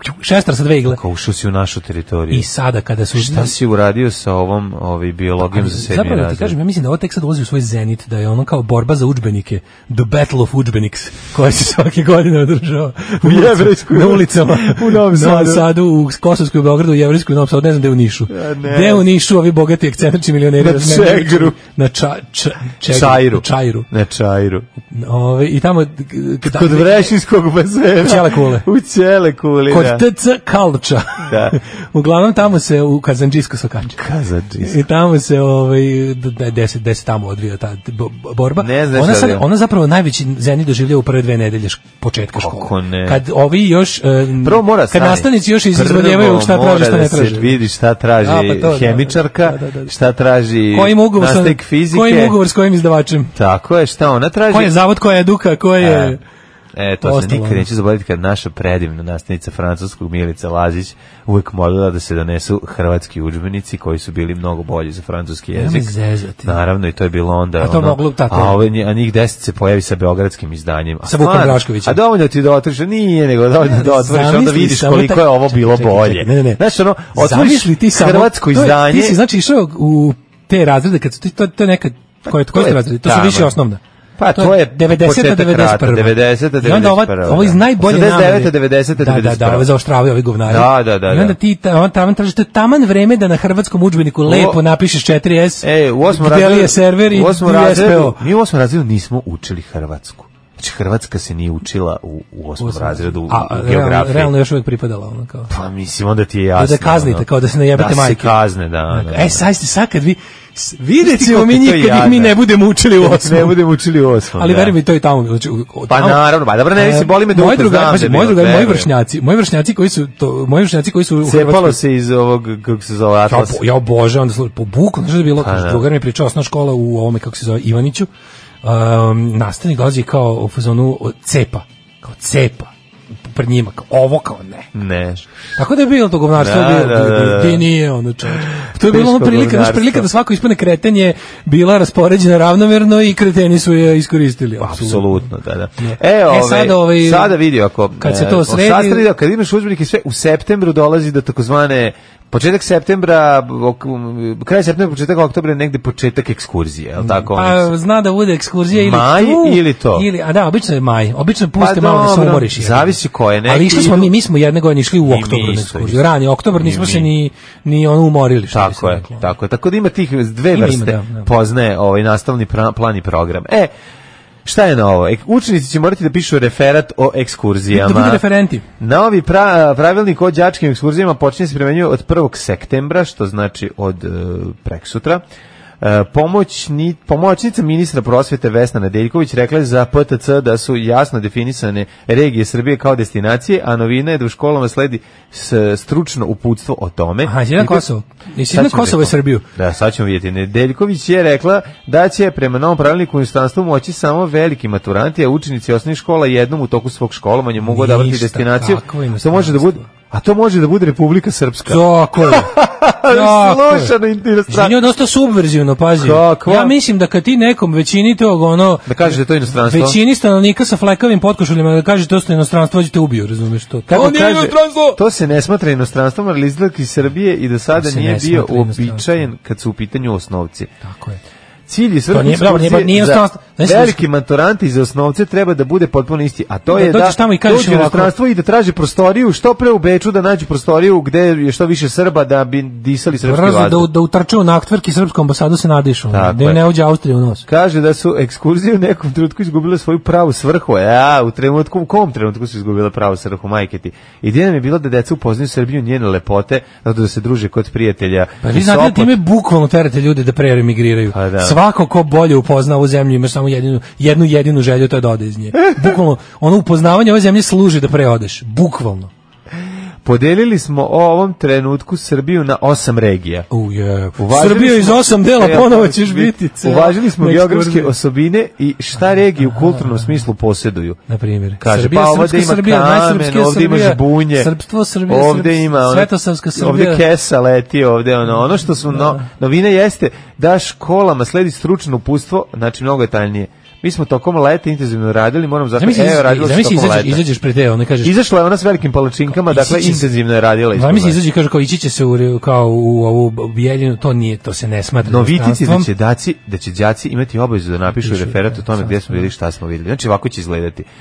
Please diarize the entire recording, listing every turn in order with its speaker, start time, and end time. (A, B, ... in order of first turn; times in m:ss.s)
0:00.2-0:01.0 A
0:00.9-0:02.5 B
0:02.3-0:03.5 A
0:03.1-0:06.6 B
0:05.5-0:23.9 A
0:13.2-0:15.7 B
0:18.3-0:19.0 B
0:20.6-0:21.6 B
0:22.8-0:24.7 B
0:24.9-0:27.1 A
0:26.4-0:30.0 B
0:28.0-0:28.6 A
0:29.7-0:34.0 A
0:31.2-0:31.6 B
0:34.0-0:34.8 B
0:34.6-0:47.6 A
0:38.6-0:39.4 B
0:42.3-0:43.2 B
0:44.4-0:52.4 B
0:48.2-0:49.9 A
0:50.7-0:53.3 A
0:53.3-0:54.7 B
0:54.5-0:56.2 A
0:55.8-0:56.2 B
0:56.7-1:19.2 B
0:57.0-0:57.7 A
1:05.5-1:06.6 A
1:07.6-1:08.6 A
1:11.0-1:12.0 A
1:13.6-1:16.6 A
1:17.1-1:23.8 A
1:22.3-1:23.5 B
1:24.2-1:29.7 B
1:24.3-1:38.2 A
1:30.5-1:31.4 B
1:34.2-1:34.6 B
1:35.6-1:44.3 B
1:42.6-1:45.5 A
1:45.5-1:49.4 B
1:46.6-1:48.4 A
1:48.9-1:53.6 A
1:51.0-1:52.4 B
1:53.0-1:54.7 B
1:54.4-2:01.8 A
1:55.9-1:58.9 B
2:01.2-2:03.6 B
2:03.3-2:08.1 A
2:05.4-2:05.9 B
2:08.6-2:12.7 A
2:13.3-2:14.7 A
2:14.7-2:15.2 B
2:15.6-2:25.2 A
2:16.4-2:17.6 B
2:18.3-2:20.1 B
2:24.6-2:37.7 B
2:25.8-2:27.4 A
2:28.0-2:29.0 A
2:37.0-2:49.3 A
2:38.7-2:40.1 B
2:41.6-2:44.1 B
2:45.0-2:47.1 B
2:48.5-2:53.7 B
2:50.5-2:51.3 A
2:54.4-2:58.2 B
2:57.7-2:58.6 A
2:58.8-3:05.2 B
3:05.8-3:17.8 B
3:17.2-3:19.4 A
3:18.5-3:34.8 B
3:27.6-3:29.9 A
3:31.7-3:33.9 A
3:34.5-3:45.0 A
3:36.0-3:36.7 B
3:38.8-3:40.0 B
3:43.9-3:50.7 B
3:47.7-3:49.0 A
3:50.8-3:51.2 A
3:51.7-4:03.9 B
3:52.1-3:54.0 A
3:56.7-3:58.1 A
4:03.2-4:07.4 A
4:06.1-4:06.6 B
4:07.4-4:19.2 B
4:18.4-4:29.1 A
4:21.1-4:21.6 B
4:30.0-4:33.5 B
4:33.5-4:37.9 A
4:34.2-4:41.0 B
4:39.4-4:40.0 A
4:41.1-4:47.0 A
4:41.6-4:44.5 B
4:45.1-4:57.2 B
4:48.9-4:49.3 A
4:55.8-4:58.1 A
4:58.0-5:01.2 B
4:59.3-5:00.1 A
5:00.7-5:05.9 A
5:05.0-5:10.9 B
5:08.0-5:09.3 A